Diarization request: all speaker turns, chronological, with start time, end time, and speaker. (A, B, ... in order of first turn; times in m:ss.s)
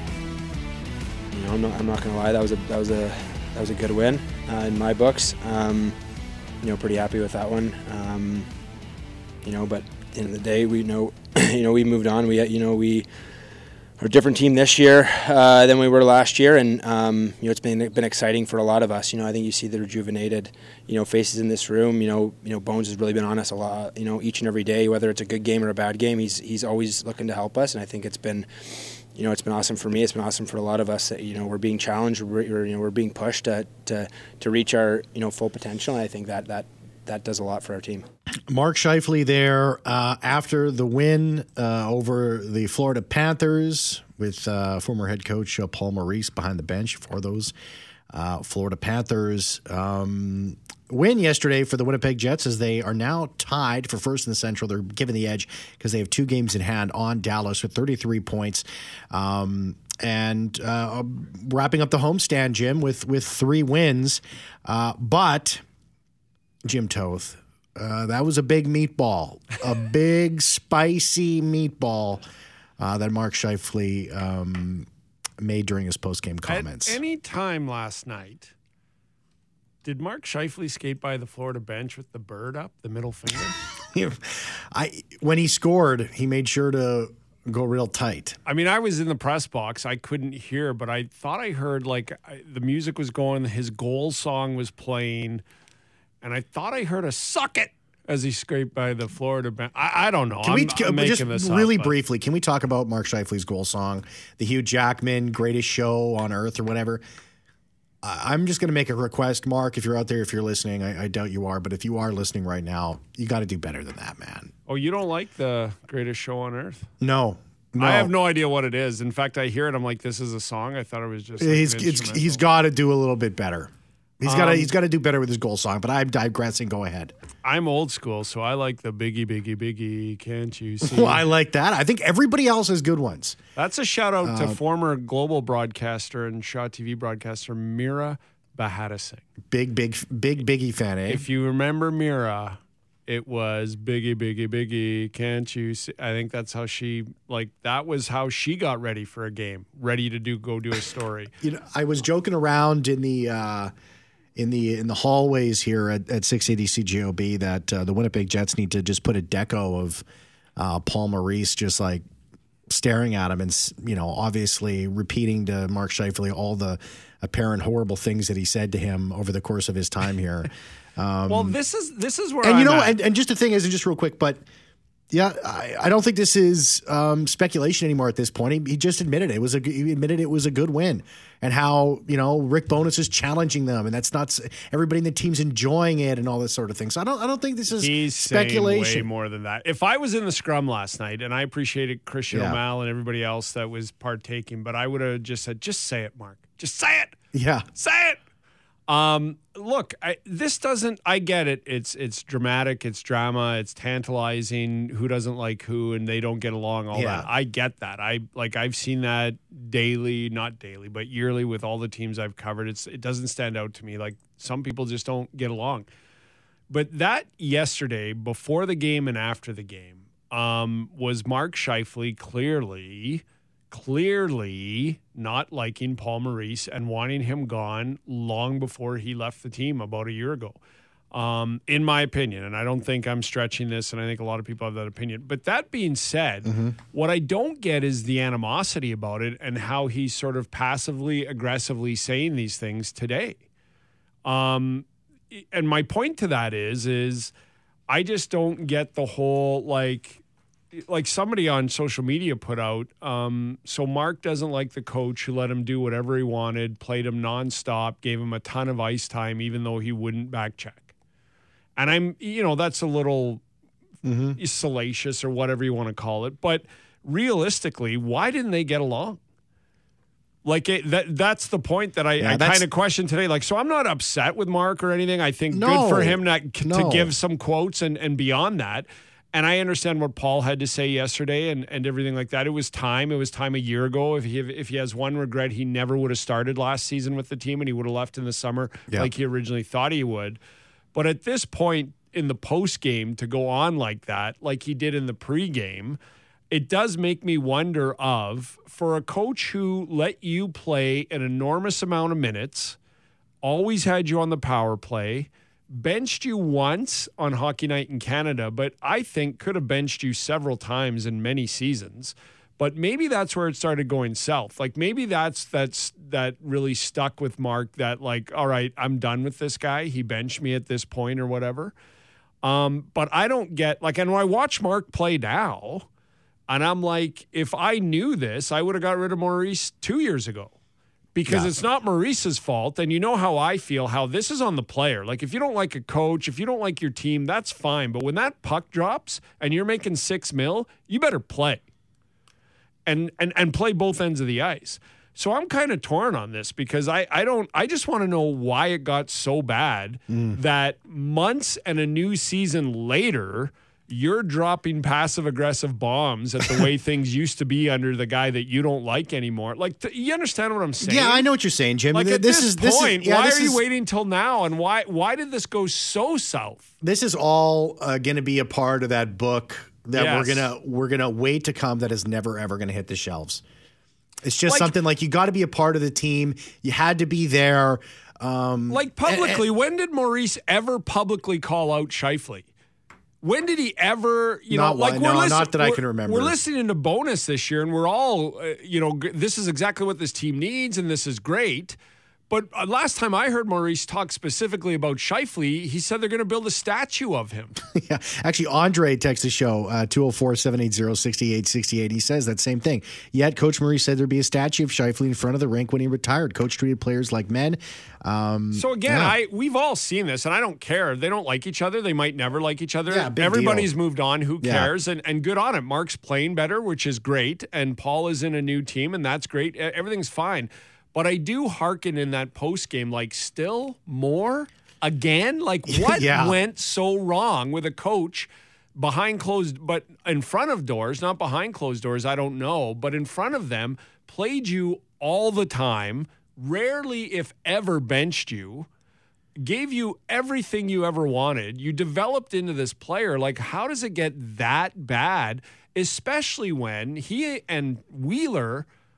0:01.3-0:06.0 A
0:06.6-0:08.5 A
0:09.4-0:13.1 A
0:14.0-0:38.1 A
0:38.5-0:47.5 B
0:48.1-1:05.6 B
1:06.6-1:12.2 B
1:12.8-1:14.9 B
1:15.4-1:17.0 B
1:16.5-1:18.5 C
1:19.8-1:23.6 C
1:23.9-1:28.4 B
1:28.4-1:35.4 C
1:36.2-1:41.9 C
1:40.4-1:47.0 B
1:48.0-1:54.5 B
1:54.7-1:56.9 C
1:57.0-1:58.1 B
1:57.8-2:02.4 C
2:01.4-2:07.1 B
2:04.2-2:04.7 C
2:07.4-2:11.2 C
2:10.8-2:13.4 B
2:13.6-2:19.2 C
2:14.2-2:14.6 B
2:19.5-2:21.2 B
2:21.1-2:31.3 C
2:31.4-2:33.7 B
2:34.4-2:40.0 B
2:40.6-2:42.0 B
2:42.7-2:51.6 B
2:51.3-2:53.0 C
2:52.4-2:54.4 B
2:55.1-3:09.1 B
3:07.7-3:17.1 C
3:12.3-3:12.6 B
3:17.3-3:17.6 B
3:17.7-3:18.2 C
3:18.9-3:35.9 C
3:26.9-3:27.3 B
3:36.7-3:50.6 C
3:51.1-4:03.4 C
3:56.4-3:56.8 B
4:04.2-4:07.3 C
4:07.9-4:10.2 C
4:10.7-4:20.9 C
4:21.8-4:23.4 C
4:24.0-4:24.4 B
4:24.4-4:29.2 C
4:30.4-4:50.4 C
4:32.2-4:32.6 B
4:35.5-4:37.1 B
4:50.9-4:56.0 C
4:56.5-5:02.8 C
5:03.4-5:21.7 C
5:22.4-5:25.9 C
5:26.5-5:30.5 C
5:31.1-5:41.6 C
5:31.3-5:31.5 B
5:42.8-6:01.2 C
5:50.1-5:50.4 B
6:00.8-6:03.6 B
6:01.9-6:06.7 C
6:06.8-6:13.4 B
6:09.9-6:10.5 C
6:14.2-6:19.4 B
6:14.4-6:14.7 C
6:18.7-6:22.5 C
6:23.2-6:31.8 C
6:24.5-6:26.3 B
6:32.3-6:37.6 C
6:37.7-6:49.1 B
6:48.5-7:18.7 C
6:52.9-6:53.7 B
6:54.4-6:54.7 B
7:05.7-7:06.4 B
7:19.4-7:28.7 C